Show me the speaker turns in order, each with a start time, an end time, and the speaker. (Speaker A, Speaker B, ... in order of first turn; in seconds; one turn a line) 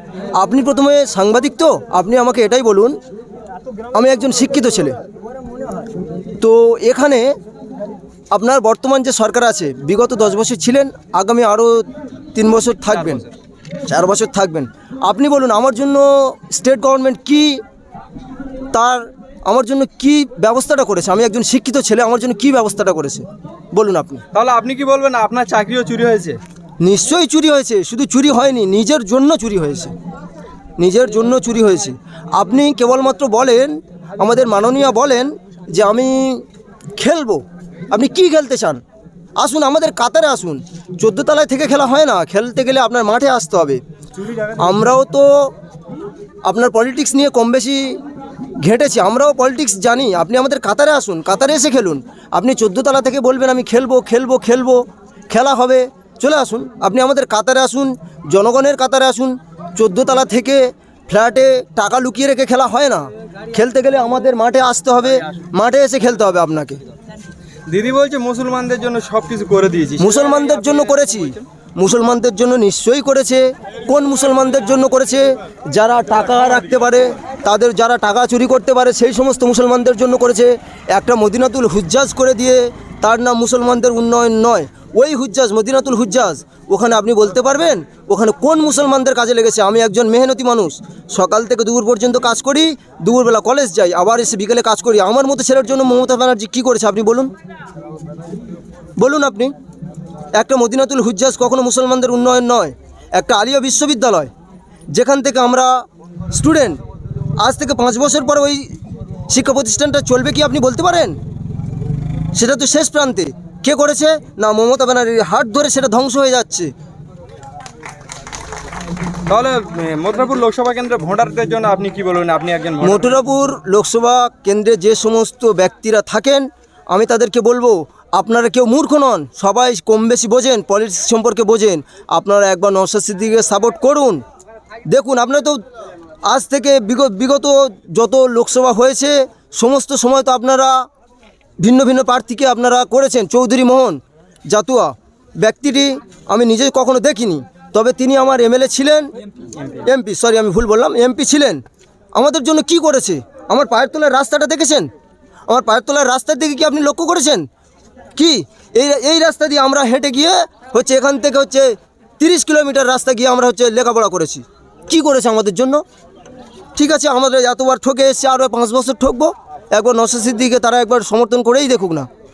Speaker A: 0.4-3.0
Speaker A: 3.9-5.0
Speaker A: 6.4-7.3
Speaker A: 8.3-13.2
Speaker B: 12.9-13.3
Speaker A: 13.9-17.6
Speaker A: 18.7-24.2
Speaker B: 24.3-26.4
Speaker A: 26.8-29.9
Speaker A: 30.8-36.5
Speaker A: 37.0-38.8
Speaker A: 39.4-43.8
Speaker A: 44.5-45.5
Speaker A: 46.5-48.0
Speaker A: 48.6-66.8
Speaker B: 67.7-71.4
Speaker A: 70.0-97.3
Speaker A: 99.0-99.5
Speaker A: 100.4-104.3
Speaker A: 104.9-106.8
Speaker A: 107.4-108.7
Speaker A: 109.3-111.2
Speaker A: 112.4-116.7
Speaker B: 119.3-123.2
Speaker A: 122.8-134.2
Speaker A: 134.9-135.6
Speaker A: 136.3-140.8
Speaker A: 141.6-144.0
Speaker A: 144.5-149.1
Speaker A: 149.8-151.6
Speaker A: 152.1-154.9
Speaker A: 155.5-157.4
Speaker A: 158.2-165.8
Speaker A: 166.8-172.1